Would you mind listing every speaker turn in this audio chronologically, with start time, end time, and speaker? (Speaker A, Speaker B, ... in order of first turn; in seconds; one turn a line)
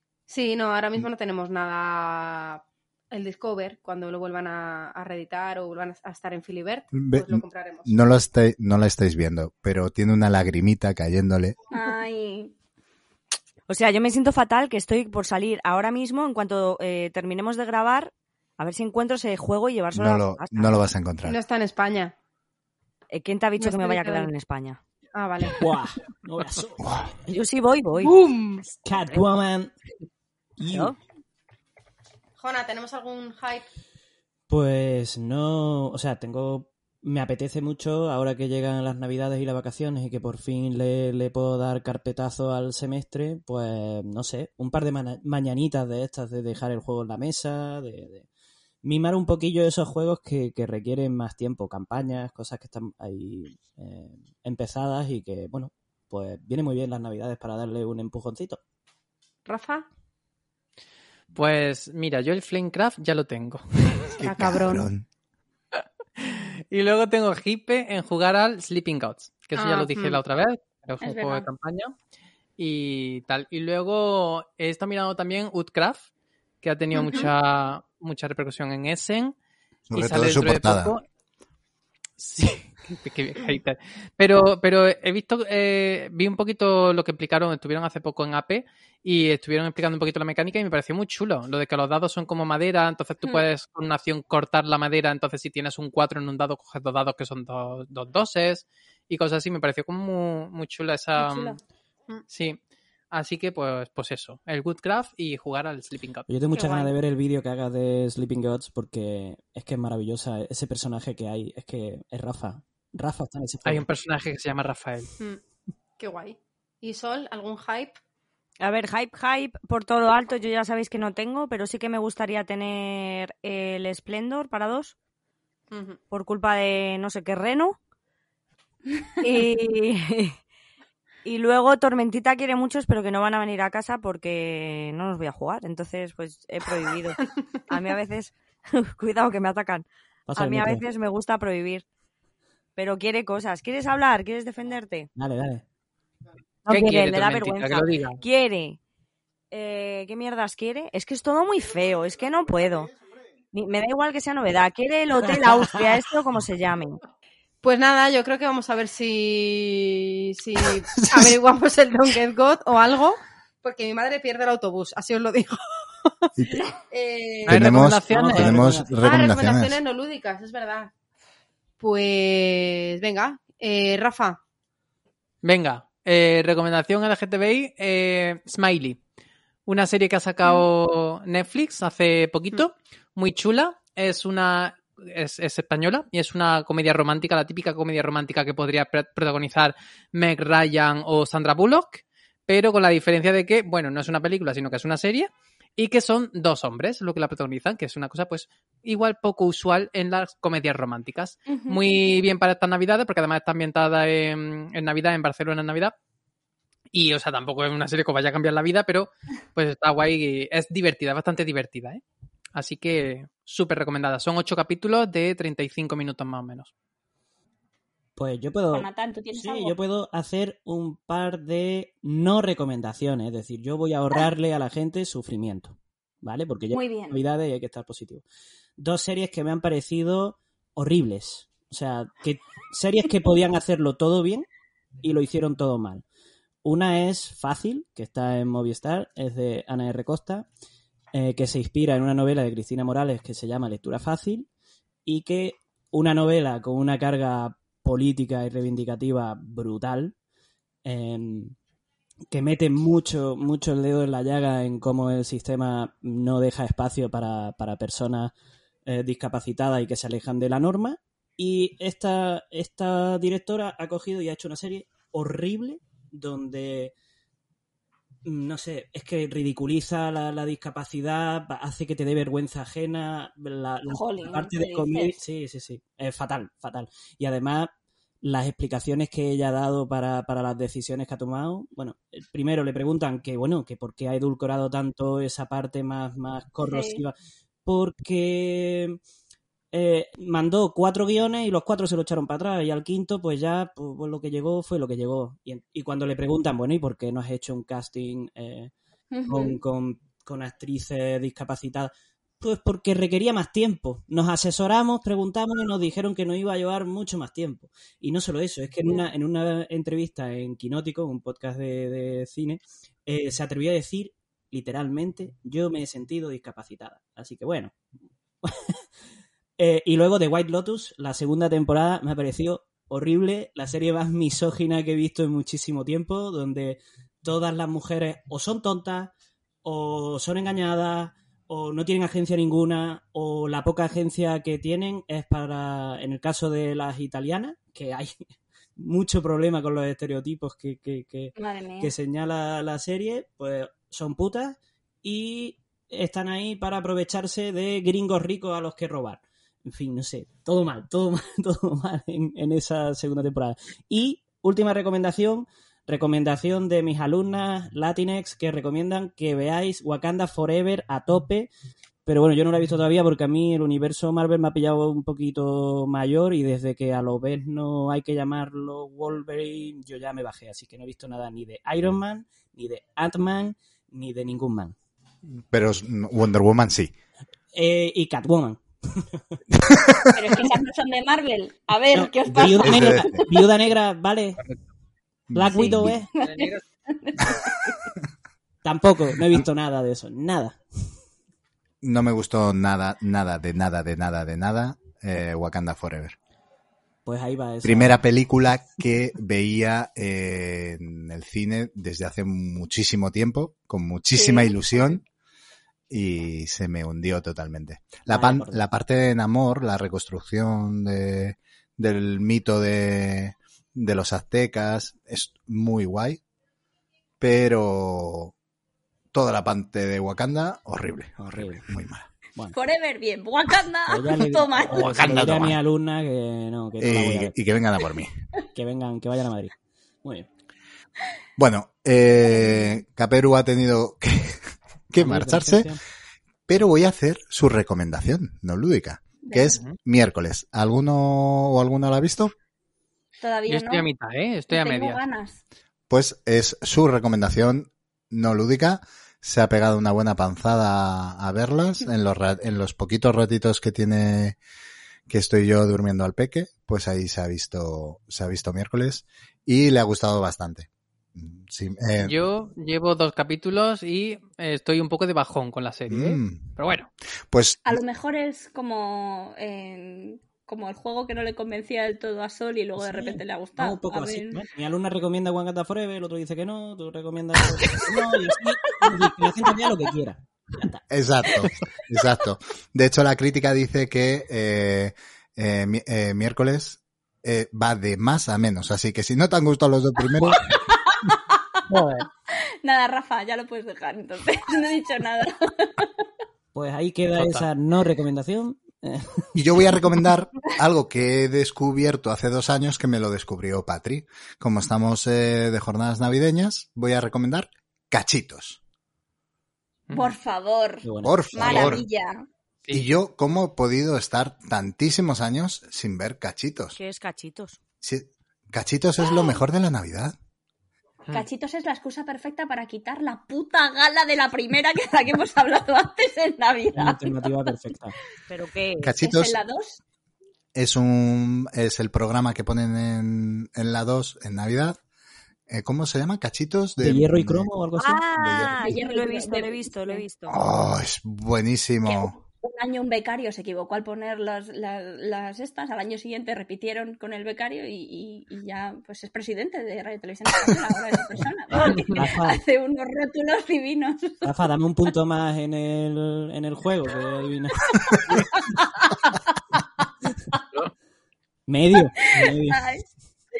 Speaker A: 0.3-8.0
Speaker B: 6.9-11.6
Speaker C: 11.7-12.5
Speaker D: 13.7-20.7
Speaker B: 19.9-21.4
Speaker A: 21.2-22.1
Speaker D: 23.1-24.8
Speaker A: 23.6-24.3
Speaker A: 25.1-25.6
Speaker E: 25.6-27.0
Speaker B: 26.8-27.1
Speaker D: 27.3-28.1
Speaker A: 28.0-28.7
Speaker E: 28.8-29.7
Speaker E: 30.6-30.9
Speaker D: 30.7-30.9
Speaker A: 32.4-33.7
Speaker E: 34.5-48.3
Speaker E: 48.8-58.6
Speaker A: 59.5-59.9
Speaker F: 61.3-64.1
Speaker B: 64.1-65.0
Speaker A: 64.2-64.9
Speaker F: 65.8-71.9
Speaker A: 69.5-70.2
Speaker C: 71.0-71.5
Speaker F: 72.6-76.1
Speaker F: 76.6-79.3
Speaker B: 79.9-80.9
Speaker F: 79.9-81.0
Speaker F: 82.2-101.6
Speaker C: 101.2-101.6
Speaker F: 102.3-102.6
Speaker F: 103.1-106.3
Speaker E: 106.3-113.9
Speaker A: 106.5-106.9
Speaker F: 113.6-115.1
Speaker A: 116.0-118.0
Speaker D: 118.6-124.9
Speaker A: 125.7-126.0
Speaker D: 126.1-127.8
Speaker D: 129.2-130.4
Speaker D: 131.2-141.8
Speaker E: 140.3-140.8
Speaker D: 142.8-145.1
Speaker E: 145.2-145.6
Speaker D: 146.7-148.8
Speaker F: 146.7-148.2
Speaker D: 149.5-152.9
Speaker D: 153.5-157.0
Speaker E: 155.2-156.0
Speaker A: 157.6-165.6
Speaker B: 160.9-161.3
Speaker B: 166.4-166.6
Speaker A: 166.9-167.6
Speaker F: 167.4-168.7
Speaker B: 167.5-169.8
Speaker E: 167.8-169.1
Speaker A: 169.0-170.9
Speaker A: 171.8-174.4
Speaker F: 175.4-179.0
Speaker F: 179.7-205.9
Speaker C: 201.5-202.1
Speaker F: 206.9-212.0
Speaker F: 212.5-216.7
Speaker E: 218.2-228.2
Speaker C: 218.7-219.8
Speaker C: 226.7-227.2
Speaker E: 228.8-234.5
Speaker E: 235.0-236.0
Speaker E: 236.6-240.4
Speaker E: 241.1-244.5
Speaker E: 245.1-250.1
Speaker E: 250.8-251.5
Speaker E: 252.3-258.3
Speaker E: 258.9-266.9
Speaker E: 268.2-277.7
Speaker C: 273.9-275.2
Speaker E: 278.2-289.0
Speaker C: 286.6-287.0
Speaker E: 289.7-298.7
Speaker C: 299.1-299.6
Speaker E: 299.3-317.7
Speaker E: 318.4-318.8
Speaker E: 319.6-329.1
Speaker E: 329.6-338.1
Speaker E: 338.8-361.5
Speaker C: 341.4-341.9
Speaker E: 362.1-374.7
Speaker B: 375.2-376.9
Speaker E: 377.5-379.4
Speaker B: 379.5-380.4
Speaker C: 380.1-383.4
Speaker E: 381.9-384.4
Speaker B: 382.6-383.2
Speaker F: 384.4-384.6
Speaker B: 385.3-386.0
Speaker E: 385.3-386.1
Speaker C: 386.1-387.9
Speaker F: 386.2-386.6
Speaker E: 388.6-390.6
Speaker B: 391.8-396.1
Speaker E: 397.0-398.0
Speaker B: 397.6-405.0
Speaker C: 404.1-404.6
Speaker B: 405.9-416.2
Speaker E: 408.1-408.6
Speaker B: 417.2-418.3
Speaker B: 419.1-422.1
Speaker E: 421.2-421.6
Speaker C: 422.5-425.2
Speaker E: 423.9-427.3
Speaker B: 424.7-425.6
Speaker B: 426.8-428.1
Speaker E: 428.5-429.5
Speaker B: 431.4-435.7
Speaker C: 432.2-432.8
Speaker E: 435.0-435.8
Speaker B: 436.5-442.3
Speaker C: 439.2-439.6
Speaker C: 443.2-443.9
Speaker F: 443.5-445.0
Speaker C: 444.5-445.4
Speaker B: 445.9-454.4
Speaker B: 455.1-462.2
Speaker F: 462.0-466.9
Speaker B: 465.9-466.5
Speaker B: 467.3-467.8
Speaker C: 467.6-474.4
Speaker E: 472.8-480.8
Speaker B: 480.9-490.4
Speaker C: 490.5-491.4
Speaker F: 491.7-492.1
Speaker C: 492.3-495.9
Speaker E: 496.5-499.3
Speaker F: 497.1-497.4
Speaker B: 499.3-508.6
Speaker C: 509.9-512.2
Speaker E: 510.8-511.8
Speaker B: 511.0-511.8
Speaker B: 512.7-516.8
Speaker D: 516.7-517.6
Speaker B: 517.8-520.1
Speaker C: 519.0-519.4
Speaker C: 521.1-527.3
Speaker E: 526.7-528.0
Speaker D: 528.3-528.9
Speaker B: 528.8-529.4
Speaker C: 529.0-529.8
Speaker B: 530.5-534.8
Speaker B: 535.5-537.5
Speaker E: 536.8-538.6
Speaker D: 537.8-540.4
Speaker B: 538.2-538.5
Speaker C: 538.6-540.0
Speaker B: 540.3-542.1
Speaker C: 541.9-554.3
Speaker F: 551.5-552.0
Speaker E: 552.0-552.4
Speaker E: 554.2-558.2
Speaker C: 557.9-558.2
Speaker E: 561.5-562.7
Speaker C: 562.0-562.8